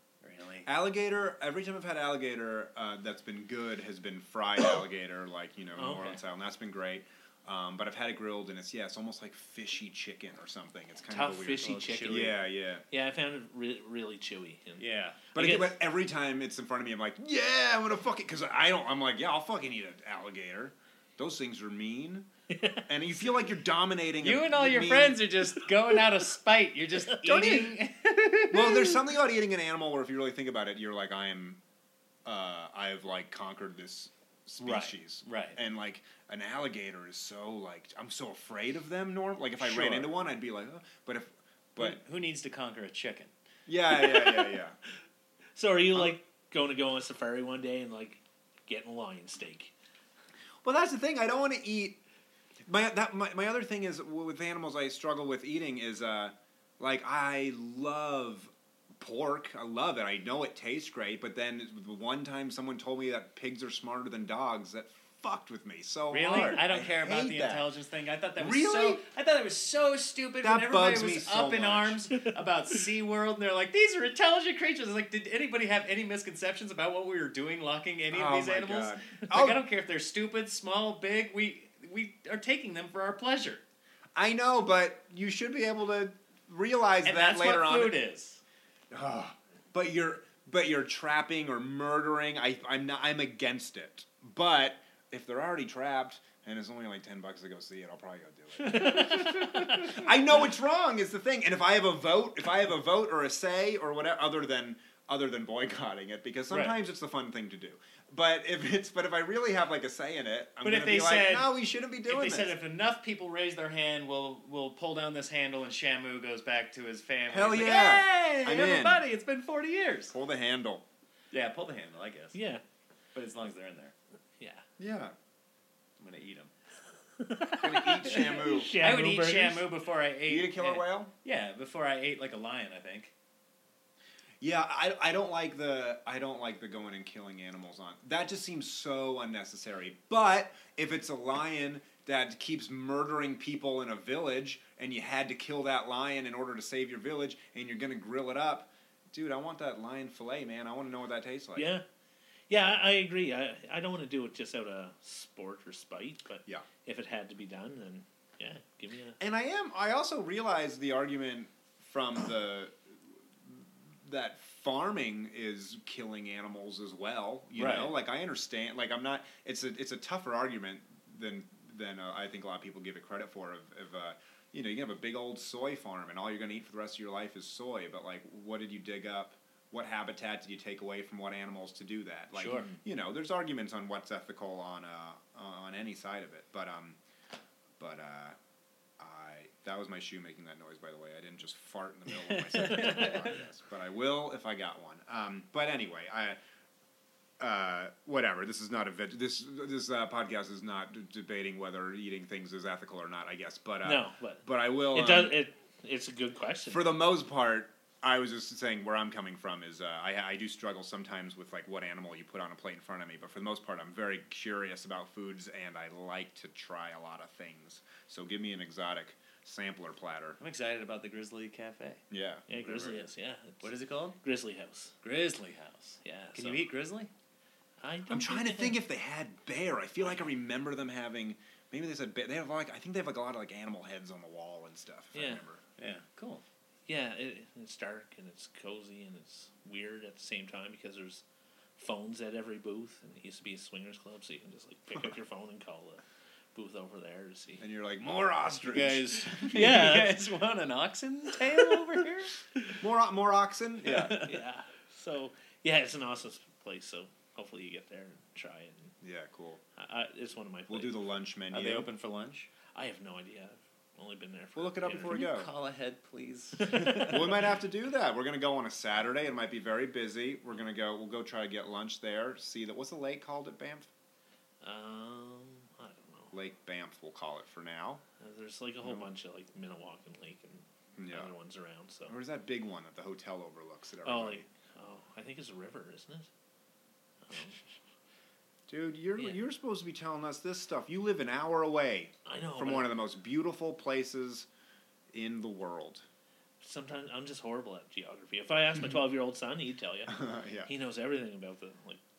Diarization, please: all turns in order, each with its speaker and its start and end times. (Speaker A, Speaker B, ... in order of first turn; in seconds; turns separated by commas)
Speaker A: 0.2-0.7, Speaker B: 0.7-12.8, Speaker C: 5.8-6.2, Speaker C: 11.1-12.3, Speaker A: 11.6-12.4, Speaker C: 12.9-15.8, Speaker A: 14.8-15.2, Speaker B: 15.3-22.3, Speaker C: 22.5-22.9, Speaker B: 22.9-25.2, Speaker A: 24.2-29.1, Speaker C: 27.1-27.5, Speaker B: 28.5-31.6, Speaker B: 32.2-42.0, Speaker A: 34.7-35.6, Speaker A: 39.6-40.1, Speaker A: 41.8-43.3, Speaker B: 43.7-44.8, Speaker C: 45.6-49.7, Speaker B: 50.6-52.0, Speaker B: 52.6-67.7, Speaker A: 66.1-83.6, Speaker B: 68.4-69.0, Speaker B: 70.4-72.1, Speaker B: 78.1-79.6, Speaker B: 84.2-88.0, Speaker A: 87.0-88.4, Speaker B: 88.9-112.5, Speaker A: 98.7-100.0, Speaker C: 98.7-99.5, Speaker A: 106.5-106.8, Speaker A: 110.6-120.2, Speaker B: 117.3-119.0, Speaker B: 120.1-120.9, Speaker A: 121.3-122.4, Speaker C: 122.3-122.6, Speaker A: 123.2-123.9, Speaker C: 124.4-124.7, Speaker B: 124.8-125.2, Speaker A: 126.0-126.5, Speaker C: 127.2-129.7, Speaker B: 127.6-128.8, Speaker A: 128.1-133.1, Speaker B: 130.3-131.1, Speaker B: 134.4-151.7, Speaker C: 151.6-151.8, Speaker C: 152.5-159.2, Speaker B: 159.2-187.0, Speaker A: 167.6-167.9, Speaker A: 182.4-182.7, Speaker B: 187.8-188.4, Speaker B: 189.0-196.4, Speaker A: 192.3-193.4, Speaker B: 197.4-205.4, Speaker C: 203.8-206.9, Speaker B: 206.7-220.4, Speaker A: 220.4-222.0, Speaker B: 222.1-223.0, Speaker C: 222.5-224.9, Speaker A: 223.6-224.2, Speaker A: 225.0-227.1, Speaker C: 226.0-226.6, Speaker C: 227.8-228.8, Speaker B: 228.1-235.6, Speaker C: 235.1-235.4, Speaker A: 235.8-236.4, Speaker C: 236.9-241.2, Speaker C: 241.8-246.0, Speaker C: 246.6-247.6, Speaker B: 247.6-249.7, Speaker A: 248.7-252.3, Speaker C: 249.5-250.2, Speaker B: 252.8-254.2, Speaker A: 253.8-254.4, Speaker C: 254.2-258.9, Speaker B: 259.0-259.6, Speaker C: 259.8-261.0, Speaker B: 260.7-261.9, Speaker A: 261.5-262.5, Speaker C: 262.7-265.2, Speaker B: 264.6-265.5, Speaker A: 265.0-267.4, Speaker C: 266.7-267.0, Speaker B: 266.8-273.9, Speaker C: 274.6-276.3, Speaker B: 276.3-278.0, Speaker C: 278.2-282.2, Speaker B: 278.8-279.1, Speaker B: 281.0-281.3, Speaker B: 282.1-284.5, Speaker C: 284.0-286.3, Speaker C: 287.3-287.6, Speaker B: 288.7-294.5, Speaker C: 292.2-292.9, Speaker B: 295.1-296.1, Speaker C: 296.6-302.0, Speaker B: 300.1-300.7